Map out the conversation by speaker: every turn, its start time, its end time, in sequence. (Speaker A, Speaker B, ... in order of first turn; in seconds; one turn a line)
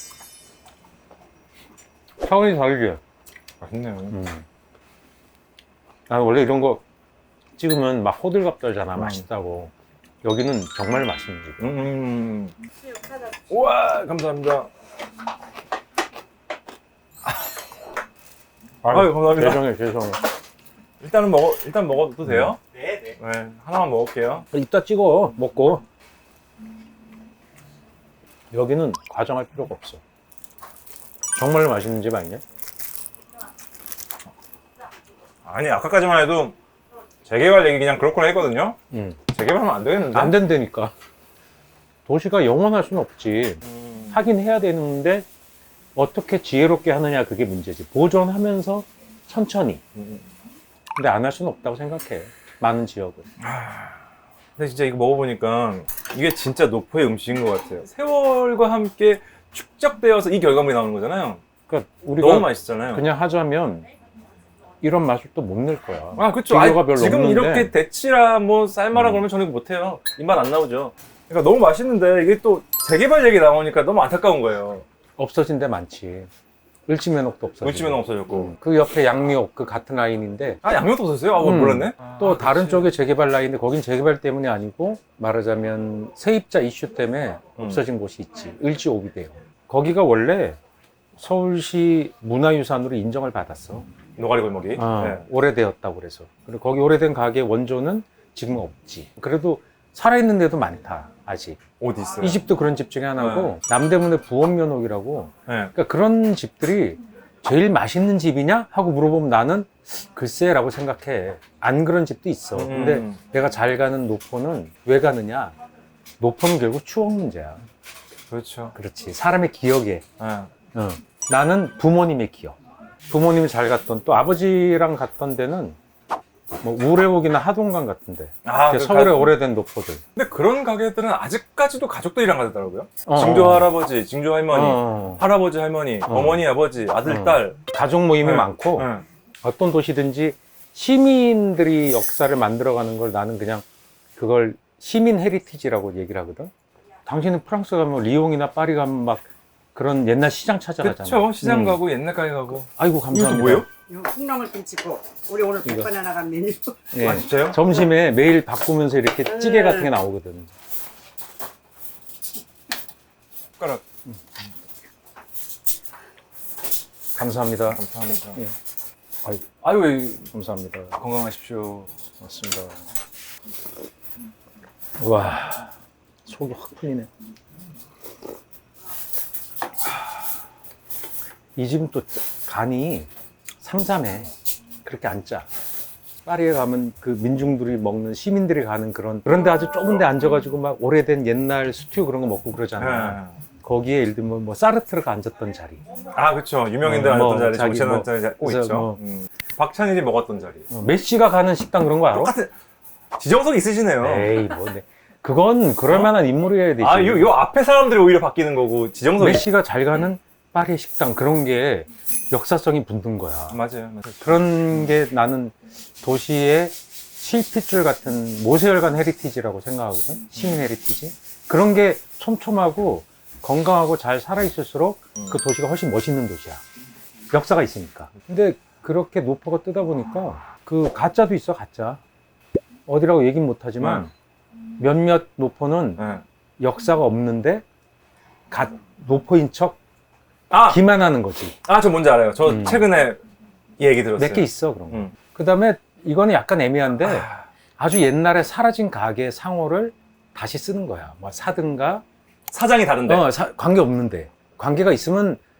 Speaker A: 2.2-3.0
Speaker B: 3.6-4.2
Speaker A: 4.1-4.5
Speaker A: 6.1-6.8
Speaker A: 7.6-9.7
Speaker B: 8.9-9.2
Speaker A: 10.2-11.8
Speaker B: 11.6-12.6
Speaker C: 12.9-13.2
Speaker B: 13.5-14.7
Speaker A: 18.8-20.2
Speaker B: 18.9-19.6
Speaker B: 21.0-24.5
Speaker A: 22.3-22.5
Speaker A: 24.5-25.8
Speaker A: 28.5-30.0
Speaker A: 31.4-32.4
Speaker B: 35.5-36.5
Speaker B: 37.2-38.8
Speaker A: 38.9-39.2
Speaker B: 39.3-40.4
Speaker A: 40.1-40.9
Speaker A: 42.1-45.3
Speaker B: 43.6-44.2
Speaker A: 46.0-49.8
Speaker B: 50.0-50.2
Speaker A: 51.0-53.3
Speaker B: 53.4-54.0
Speaker B: 54.6-61.4
Speaker A: 61.7-63.9
Speaker B: 62.2-63.1
Speaker A: 64.8-67.7
Speaker B: 66.2-74.8
Speaker A: 69.0-69.2
Speaker A: 75.2-76.3
Speaker A: 76.9-80.6
Speaker B: 77.6-78.5
Speaker B: 80.6-82.9
Speaker A: 81.4-90.6
Speaker A: 91.2-93.9
Speaker B: 94.2-95.3
Speaker A: 94.8-101.6
Speaker B: 101.8-102.4
Speaker A: 102.2-115.5
Speaker B: 103.2-103.6
Speaker B: 105.5-105.7
Speaker B: 112.5-113.2
Speaker A: 116.2-117.6
Speaker B: 118.3-118.7
Speaker A: 118.8-120.0
Speaker B: 120.2-120.5
Speaker A: 120.7-122.6
Speaker A: 123.1-125.8
Speaker A: 126.6-130.0
Speaker B: 128.4-129.3
Speaker B: 130.2-137.6
Speaker A: 133.1-133.7
Speaker A: 134.5-135.2
Speaker A: 136.1-136.5
Speaker A: 137.1-138.9
Speaker B: 138.2-139.1
Speaker A: 139.4-143.7
Speaker A: 144.2-146.5
Speaker A: 147.1-151.8
Speaker B: 150.8-153.7
Speaker A: 152.5-153.7
Speaker C: 153.9-156.8
Speaker A: 155.6-155.9
Speaker A: 156.9-160.5
Speaker B: 157.0-157.6
Speaker B: 163.6-163.8
Speaker A: 167.2-167.8
Speaker B: 167.7-168.4
Speaker B: 169.6-170.3
Speaker A: 170.3-171.0
Speaker B: 171.0-171.9
Speaker A: 172.2-172.9
Speaker A: 175.0-175.7
Speaker A: 176.2-177.1
Speaker A: 181.6-183.1
Speaker A: 183.6-184.3
Speaker A: 184.8-185.5
Speaker A: 186.2-195.9
Speaker B: 192.8-193.4
Speaker B: 196.1-200.7
Speaker A: 196.8-199.0
Speaker A: 200.7-202.3
Speaker B: 202.1-202.5
Speaker B: 203.2-204.5
Speaker A: 204.0-207.4
Speaker B: 205.9-206.1
Speaker B: 206.8-209.5
Speaker A: 209.2-213.6
Speaker B: 213.5-214.4
Speaker A: 214.2-226.6
Speaker A: 227.3-232.0
Speaker A: 232.9-234.1
Speaker B: 233.8-234.1
Speaker A: 234.8-236.0
Speaker B: 236.0-236.2
Speaker A: 236.6-237.6
Speaker A: 238.5-239.8
Speaker B: 240.5-240.8
Speaker A: 240.7-241.6
Speaker B: 241.7-243.2
Speaker A: 242.4-242.9
Speaker B: 243.8-245.1
Speaker A: 244.2-252.0
Speaker B: 247.0-247.5
Speaker B: 252.5-253.3
Speaker A: 253.1-255.4